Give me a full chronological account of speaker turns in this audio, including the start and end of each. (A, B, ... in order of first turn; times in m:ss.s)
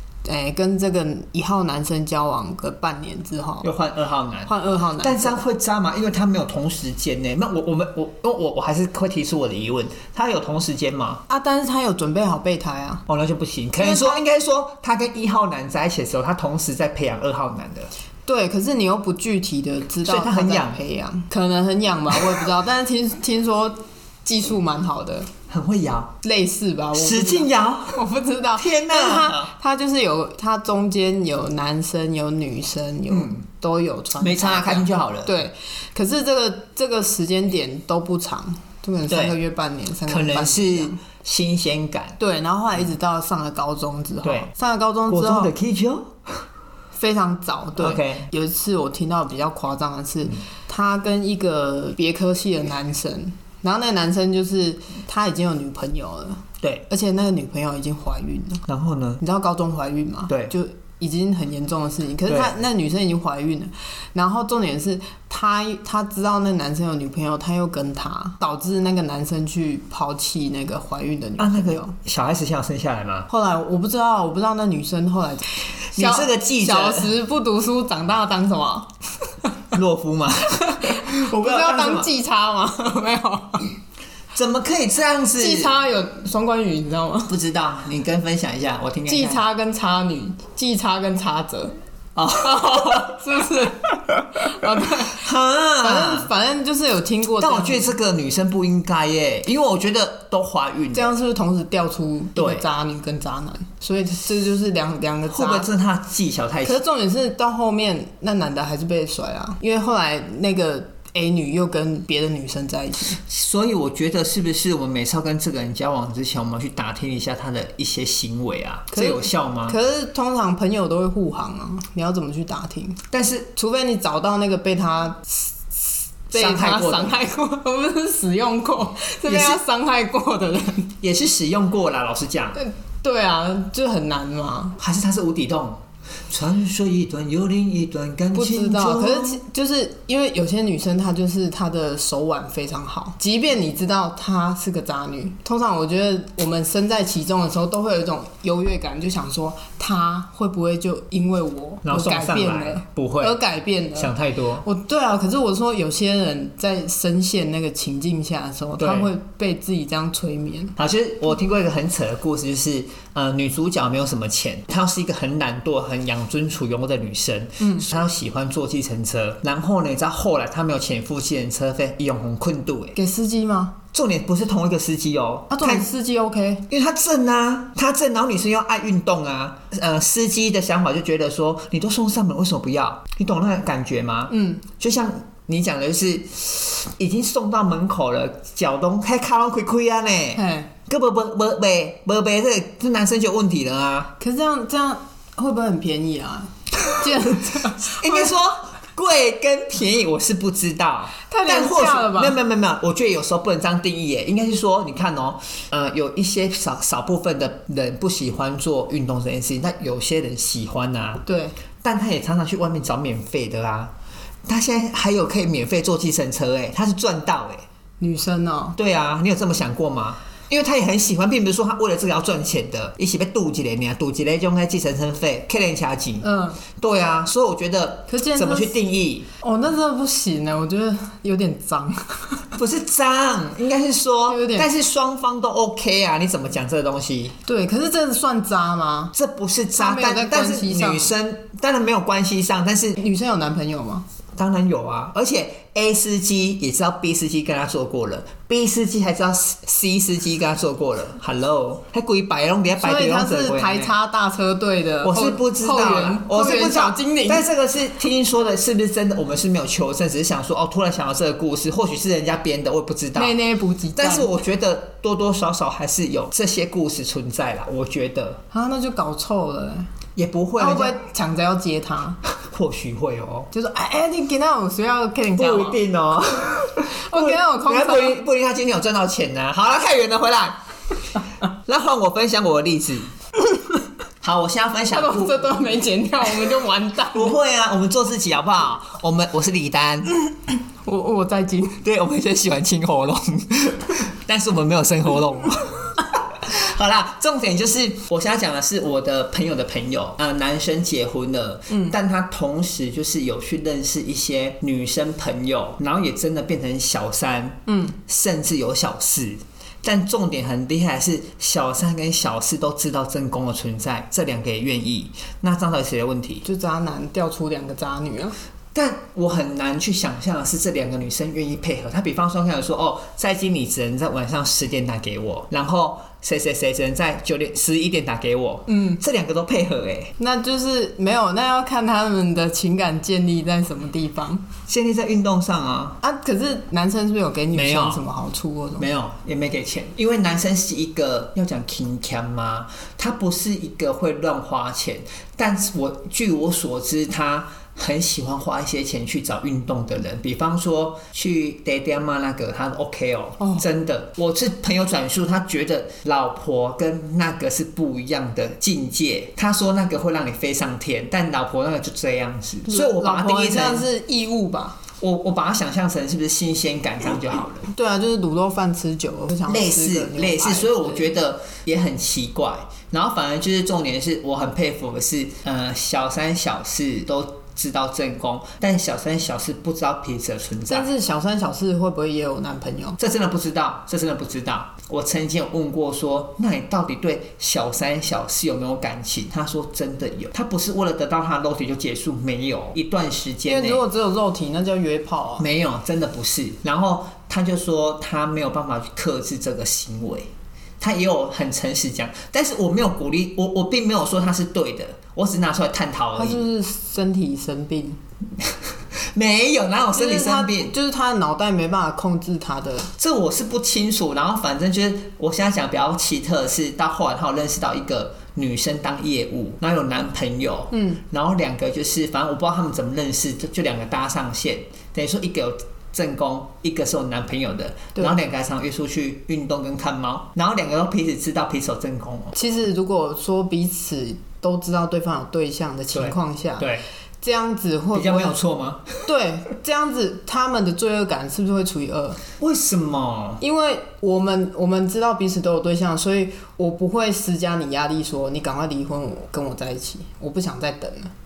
0:00.2-0:03.7 A
0:03.6-0:11.2 B
0:04.5-0:05.4 A
0:11.3-0:13.0 A
0:13.1-0:17.9 B
0:13.8-0:14.2 A
0:18.3-0:25.3 A
0:20.0-0:20.8 B
0:25.5-0:26.1 B
0:26.2-0:41.0 A
0:27.0-0:28.0 B
0:28.6-0:29.5 B
0:33.1-0:33.4 B
0:34.2-0:35.4 B
0:39.1-0:39.4 B
0:40.1-0:42.2 B
0:42.2-0:45.5 A
0:44.2-0:44.5 B
0:45.1-0:46.4 B
0:46.9-0:58.6 A
0:47.8-0:48.3 B
0:58.7-0:59.2 B
0:59.2-1:11.9 A
1:00.3-1:00.5 B
1:02.3-1:02.5 B
1:11.4-1:13.3 B
1:13.3-1:18.9 A
1:15.9-1:17.1 B
1:19.7-1:22.1 B
1:20.7-1:23.8 A
1:24.3-1:25.8 B
1:25.4-1:27.3 A
1:27.3-1:29.4 B
1:29.1-1:31.8 A
1:32.2-1:33.1 B
1:32.4-1:35.2 A
1:35.0-1:36.3 B
1:35.8-1:38.0 A
1:37.4-1:41.1 B
1:40.9-1:45.7 A
1:42.4-1:42.7 B
1:45.3-1:46.8 B
1:46.6-1:53.2 A
1:53.2-1:59.8 B
1:58.9-2:03.0 A
2:03.1-2:03.5 B
2:03.6-2:11.0 A
2:06.3-2:07.2 B
2:09.3-2:09.6 B
2:11.0-2:12.6 B
2:12.6-2:14.8 A
2:14.8-2:19.4 B
2:18.3-2:40.8 A
2:31.8-2:33.4 B
2:34.0-2:34.6 B
2:38.8-2:39.1 B
2:40.8-2:53.0 B
2:47.6-2:47.9 A
2:53.0-2:53.8 A
2:53.9-2:55.9 B
2:55.5-2:56.7 A
2:56.7-3:14.1 B
3:04.3-3:04.6 A
3:10.4-3:10.7 A
3:14.2-3:18.3 A
3:17.7-3:31.2 B
3:21.3-3:22.4 A
3:31.3-3:31.6 A
3:31.8-3:33.9 B
3:34.5-3:37.6 B
3:38.0-3:38.8 A
3:38.8-3:49.3 B
3:46.2-3:46.6 A
3:48.1-3:48.7 A
3:49.4-3:52.5 A
3:52.6-3:57.4 B
3:54.3-3:54.7 A
3:57.4-3:59.1 A
3:59.1-4:03.0 B
3:59.8-4:01.1 A
4:03.0-4:04.0 A
4:04.4-4:13.9 B
4:12.8-4:17.5 A
4:15.0-4:23.3 B
4:23.2-4:24.3 A
4:24.0-4:28.4 B
4:28.5-4:29.9 A
4:30.2-4:31.0 B
4:30.6-4:32.2 A
4:32.4-4:33.5 B
4:33.5-4:35.8 A
4:35.4-4:40.6 B
4:37.0-4:38.2 A
4:41.7-4:43.1 B
4:44.2-4:45.4 B
4:44.9-4:47.4 A
4:47.1-4:50.2 B
4:50.8-4:51.8 A
4:51.8-5:16.4 B
5:01.7-5:02.0 A
5:07.7-5:08.0 A
5:16.4-5:18.4 A
5:18.7-5:30.1 B
5:28.7-5:29.0 A
5:30.2-5:34.4 A
5:34.7-5:36.0 B
5:36.0-5:38.9 A
5:37.5-5:38.0 B
5:38.8-6:03.9 B
5:53.4-5:53.6 A
6:02.7-6:04.8 A
6:05.0-6:07.7 B
6:07.7-6:11.1 A
6:09.5-6:20.9 B
6:20.7-6:23.0 A
6:23.0-6:33.8 B
6:33.5-6:35.5 A
6:35.4-6:40.3 B
6:40.8-6:46.4 B
6:46.2-6:48.0 A
6:49.1-6:50.7 B
6:50.0-6:52.9 A
6:53.0-7:12.4 B
7:00.7-7:01.0 A
7:12.4-7:16.7 A
7:15.9-7:16.8 B
7:17.2-7:18.4 A
7:17.9-7:19.0 B
7:19.0-7:22.2 A
7:22.4-7:23.4 B
7:23.4-7:31.1 A